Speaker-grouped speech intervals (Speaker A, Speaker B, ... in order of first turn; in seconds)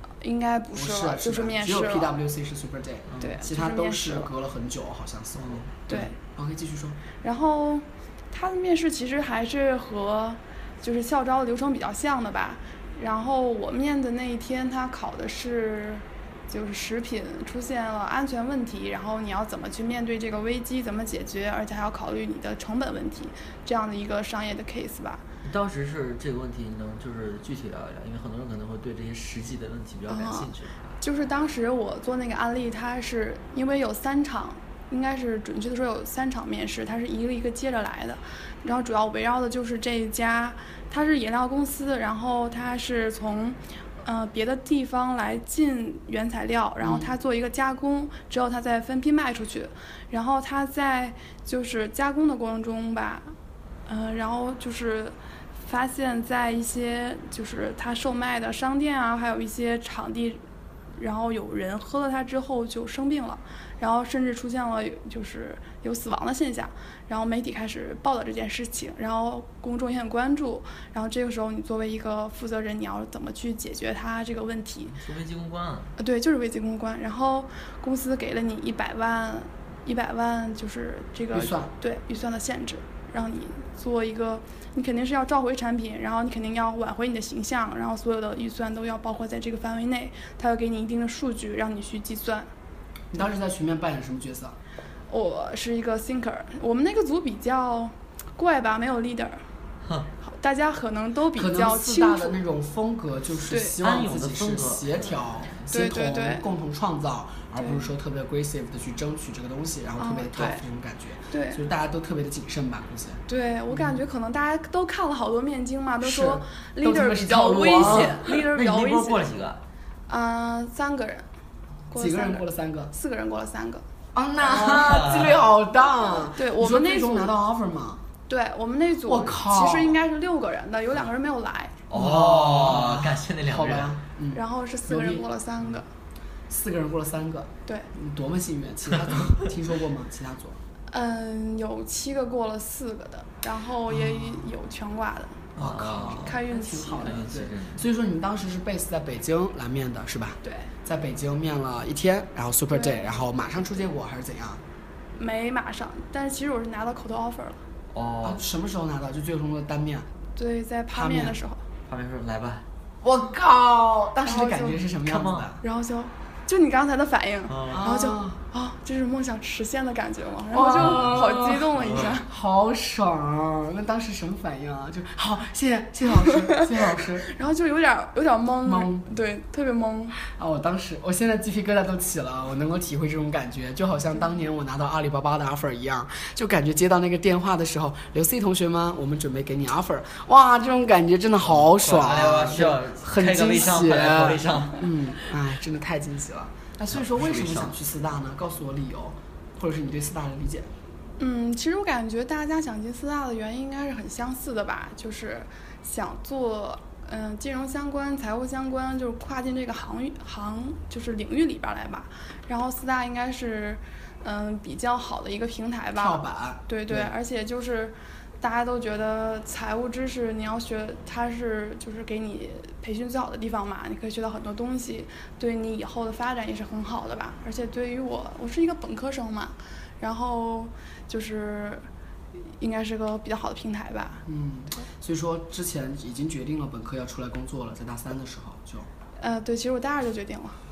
Speaker A: 0.2-2.1, 3.2-4.3, 5.9-6.2, 7.2-25.2, 30.1-53.3, 53.9-60.4, 61.0-75.0, 76.0-92.5, 95.1-99.4, 100.2-102.3, 103.5-103.8, 105.7-106.5, 107.6-107.9, 110.0-110.6, 111.3-111.6, 113.3-119.3, 120.1-121.2, 121.9-123.8, 126.3-127.3, 128.3-131.8, 134.3-135.9, 140.9-147.2, 150.4-150.7, 152.7-153.4, 155.2-157.6, 160.3-161.6, 164.2-164.8, 165.6-172.3, 176.2-176.7, 177.2-180.2, 201.2-234.2, 239.2-240.6
Speaker B: 0.7-7.0, 46.8-47.1, 81.3-81.7, 93.1-94.6, 101.3-114.0, 116.0-118.3, 122.0-122.9, 124.1-128.0, 129.1-130.0, 131.9-135.2, 136.5-140.6, 143.9-144.5, 145.6-154.6, 158.2-160.1, 160.9-161.4, 163.0-165.6, 167.7-168.4, 170.5-177.3, 178.6-179.1, 180.2-200.7, 215.9-217.1, 234.2-238.9
Speaker C: 25.4-31.0, 75.0-75.9, 99.8-100.1, 103.8-105.6, 117.9-119.6, 124.5-125.5, 131.9-134.0, 145.6-146.4, 147.0-147.9, 157.9-158.4, 161.9-162.7, 165.1-165.5, 167.5-167.8, 170.8-171.1, 191.4-194.9, 196.9-197.7